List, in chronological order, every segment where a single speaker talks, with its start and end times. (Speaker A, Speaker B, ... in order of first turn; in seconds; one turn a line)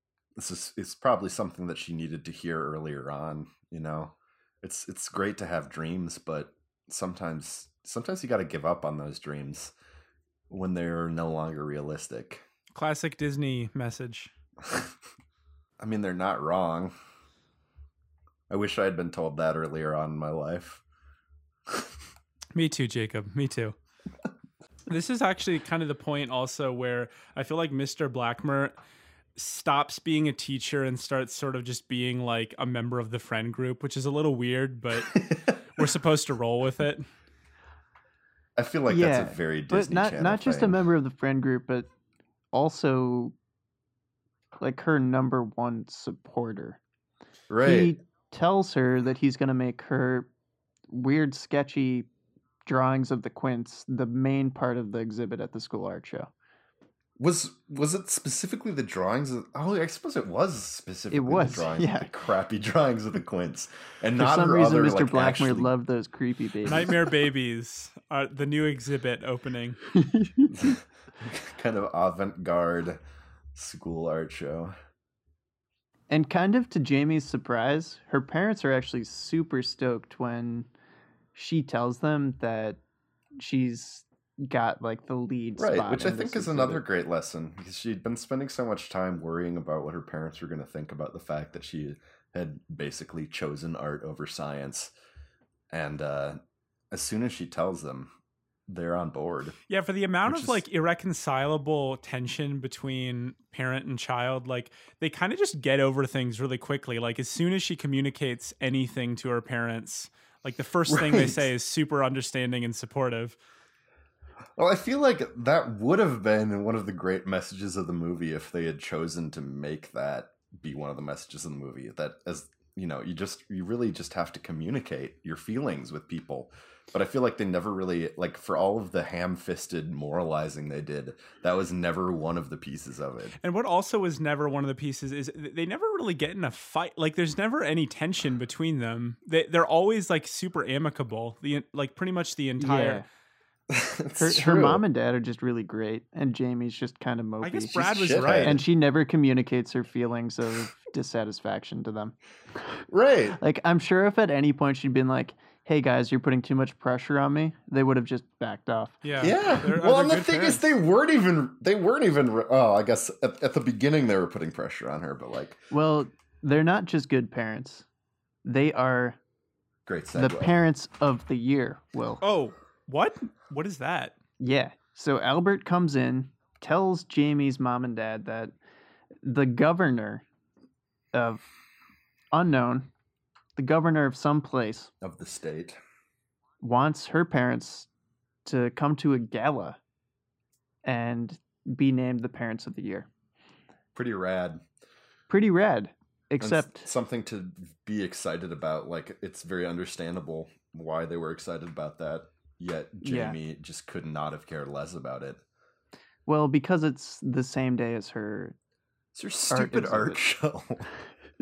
Speaker A: 0.3-9.7
Speaker A: 10.5-12.4
Speaker B: 12.7-14.3
Speaker A: 15.8-16.9
Speaker A: 18.5-20.8
Speaker B: 22.5-23.8
Speaker B: 24.9-28.7
Speaker B: 29.4-37.0
Speaker A: 35.1-35.9
Speaker A: 38.6-40.8
Speaker C: 38.9-41.9
Speaker C: 42.5-43.3
Speaker C: 44.6-46.8
Speaker A: 47.5-47.9
Speaker C: 47.6-50.3
Speaker C: 50.9-52.1
Speaker C: 52.6-56.3
Speaker A: 57.2-65.7
Speaker C: 61.1-62.1
Speaker C: 64.2-67.0
Speaker B: 66.7-69.8
Speaker C: 69.9-70.5
Speaker A: 70.5-73.0
Speaker A: 73.5-74.7
Speaker C: 76.1-80.7
Speaker C: 81.3-82.8
Speaker C: 83.4-86.8
Speaker A: 85.6-94.9
Speaker A: 95.7-96.4
Speaker A: 96.9-98.1
Speaker A: 98.7-99.6
Speaker B: 99.7-113.4
Speaker A: 100.2-100.6
Speaker A: 110.9-111.5
Speaker A: 114.6-133.3
Speaker B: 133.4-143.0
Speaker C: 142.6-143.1
Speaker A: 143.7-144.8
Speaker C: 144.2-152.1
Speaker B: 147.4-148.6
Speaker A: 147.8-148.6
Speaker A: 152.9-153.4
Speaker C: 153.4-159.0
Speaker B: 159.0-160.6
Speaker A: 159.2-165.6
Speaker C: 165.7-167.8
Speaker C: 168.4-169.2
Speaker A: 169.8-170.5
Speaker C: 170.1-172.2
Speaker B: 172.2-174.1
Speaker C: 174.4-178.5
Speaker C: 179.2-180.2
Speaker C: 181.1-181.5
Speaker C: 182.3-182.9
Speaker C: 183.6-184.9
Speaker A: 185.0-185.8
Speaker C: 186.6-187.9
Speaker C: 188.4-189.8
Speaker C: 190.8-193.1
Speaker A: 193.9-194.6
Speaker C: 195.3-196.9
Speaker A: 196.4-205.4
Speaker C: 203.0-203.4
Speaker C: 206.2-208.5
Speaker A: 209.1-210.9
Speaker C: 209.5-210.2